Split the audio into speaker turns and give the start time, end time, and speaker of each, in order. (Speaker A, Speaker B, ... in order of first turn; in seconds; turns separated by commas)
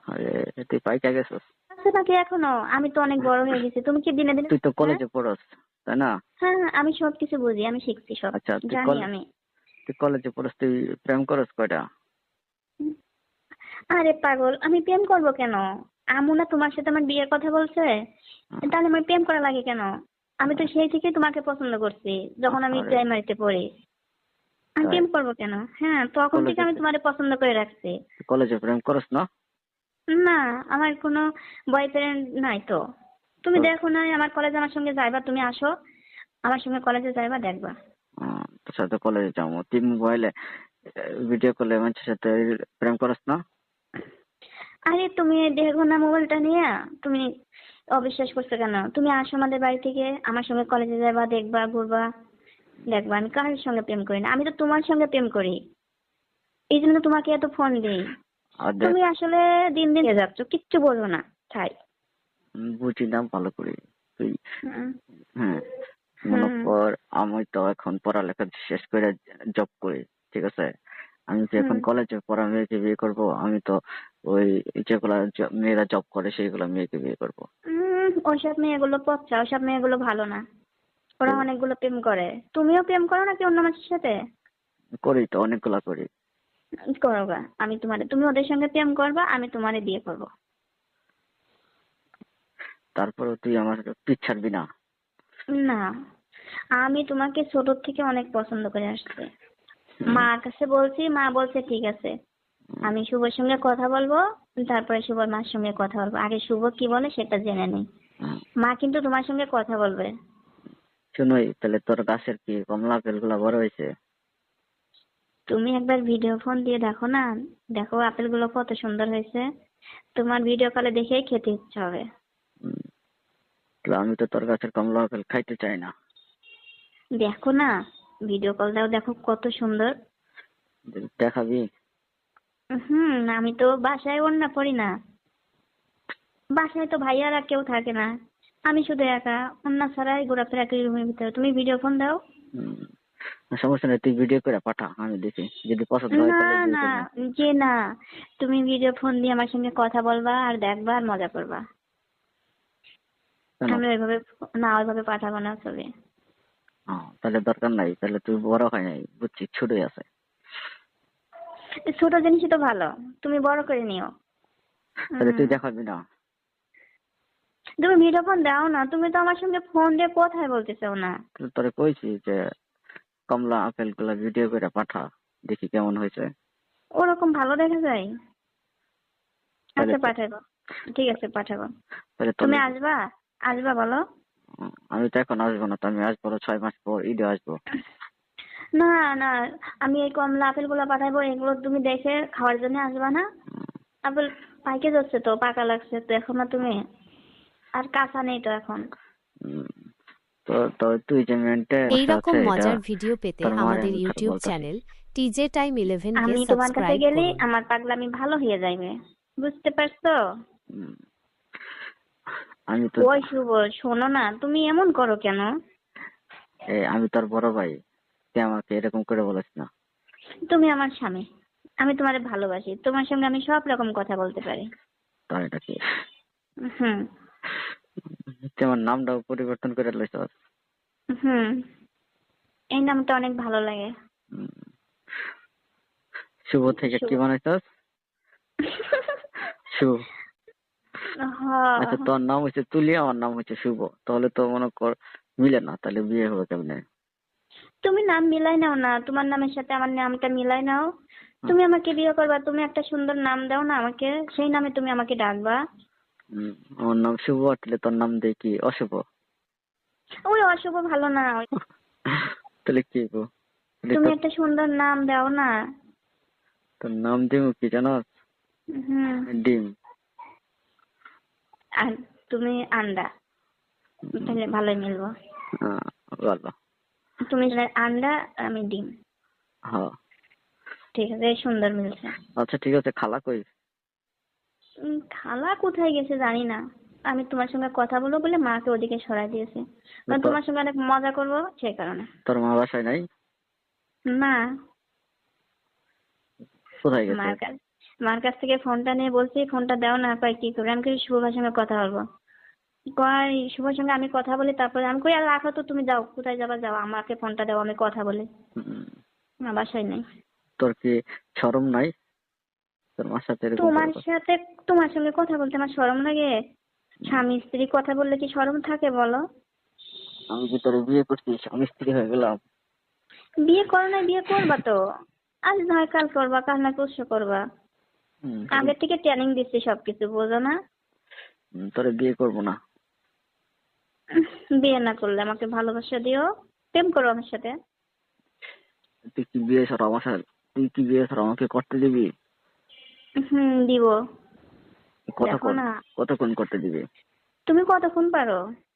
Speaker A: 0.1-1.4, Speaker B: 1.8-5.0, Speaker A: 4.5-6.1, Speaker B: 6.4-9.2, Speaker A: 8.3-9.1, Speaker A: 9.9-11.8, Speaker B: 13.9-15.6, Speaker B: 16.2-17.9, Speaker B: 18.7-19.9, Speaker B: 20.4-23.6, Speaker A: 22.5-23.0, Speaker B: 24.8-27.9, Speaker A: 26.3-26.8, Speaker A: 28.2-29.2, Speaker B: 30.1-31.2, Speaker B: 31.7-32.8, Speaker B: 33.5-35.7, Speaker B: 36.5-37.8, Speaker A: 38.2-40.3, Speaker A: 41.0-43.4, Speaker B: 44.9-47.3, Speaker B: 48.0-52.1, Speaker B: 52.9-55.6, Speaker B: 56.7-58.0, Speaker A: 58.6-59.0, Speaker B: 58.8-61.7, Speaker A: 62.6-64.3, Speaker B: 64.7-64.9, Speaker B: 66.3-66.7, Speaker A: 66.3-70.7, Speaker A: 71.3-73.7, Speaker B: 71.6-71.8, Speaker A: 74.3-77.5, Speaker B: 77.7-80.4, Speaker B: 81.2-84.1, Speaker A: 85.0-86.1, Speaker B: 87.0-90.3, Speaker A: 93.0-94.6, Speaker B: 95.6-95.8, Speaker B: 96.8-99.3, Speaker B: 100.1-102.1, Speaker B: 102.8-107.8, Speaker B: 108.6-110.1, Speaker A: 111.2-113.9, Speaker B: 115.5-119.4, Speaker B: 120.2-122.0, Speaker A: 123.9-125.9, Speaker B: 127.2-127.7, Speaker B: 128.3-129.9, Speaker A: 130.9-131.6, Speaker B: 132.8-134.9, Speaker B: 136.6-138.1, Speaker B: 138.7-142.2, Speaker A: 142.6-142.9, Speaker A: 143.6-147.1, Speaker B: 146.2-147.7, Speaker B: 148.4-151.6, Speaker B: 153.7-155.9, Speaker A: 156.9-160.1, Speaker B: 161.9-164.1, Speaker B: 165.2-165.5, Speaker A: 165.2-166.0, Speaker B: 167.8-171.1, Speaker A: 171.4-172.4, Speaker A: 173.3-176.3, Speaker B: 177.0-178.1, Speaker A: 179.8-180.1, Speaker B: 179.8-180.4, Speaker B: 180.9-181.7, Speaker A: 182.2-182.7, Speaker B: 182.4-183.0, Speaker B: 183.5-184.0, Speaker A: 184.6-187.6, Speaker B: 188.8-193.2, Speaker B: 194.1-196.8, Speaker B: 197.8-198.8, Speaker A: 199.4-199.7, Speaker A: 200.5-202.8, Speaker C: 201.9-207.4, Speaker A: 203.4-204.6, Speaker B: 206.2-210.2, Speaker A: 212.7-213.3, Speaker B: 213.0-215.5, Speaker A: 216.8-217.7, Speaker A: 218.3-219.7, Speaker B: 220.5-221.2, Speaker B: 221.8-224.7, Speaker A: 225.3-225.8, Speaker B: 226.7-227.0, Speaker A: 228.6-230.3, Speaker B: 231.2-231.6, Speaker B: 232.8-233.9, Speaker A: 236.5-237.6, Speaker B: 236.9-237.2, Speaker B: 238.7-239.2, Speaker A: 239.8-240.1, Speaker B: 241.3-242.0, Speaker A: 241.8-246.8, Speaker B: 247.8-250.8, Speaker B: 251.5-255.6, Speaker A: 256.3-259.0, Speaker B: 260.3-261.4, Speaker A: 262.1-263.2, Speaker A: 263.8-264.2, Speaker B: 263.9-265.5, Speaker A: 266.8-268.1, Speaker B: 268.8-269.3, Speaker A: 269.3-269.7, Speaker B: 271.8-273.1, Speaker B: 274.2-275.1, Speaker A: 275.6-276.5, Speaker B: 277.3-278.9, Speaker B: 281.0-282.1, Speaker A: 282.4-283.4, Speaker B: 284.9-292.1, Speaker A: 290.1-290.4, Speaker A: 292.3-293.0, Speaker B: 294.1-294.4, Speaker A: 296.8-297.4, Speaker B: 297.1-297.5, Speaker B: 298.1-302.0, Speaker B: 303.0-308.3, Speaker A: 308.6-308.9, Speaker B: 309.5-310.0, Speaker A: 310.6-311.9, Speaker A: 313.0-314.0, Speaker B: 313.6-316.3, Speaker B: 317.1-319.2, Speaker A: 320.3-322.4, Speaker B: 323.5-324.8, Speaker B: 325.5-327.4, Speaker A: 328.3-328.8, Speaker B: 328.6-330.6, Speaker A: 331.6-332.6, Speaker B: 334.2-337.5, Speaker A: 339.1-342.1, Speaker B: 343.2-343.9, Speaker A: 345.2-346.8, Speaker B: 345.2-345.7, Speaker B: 347.5-348.4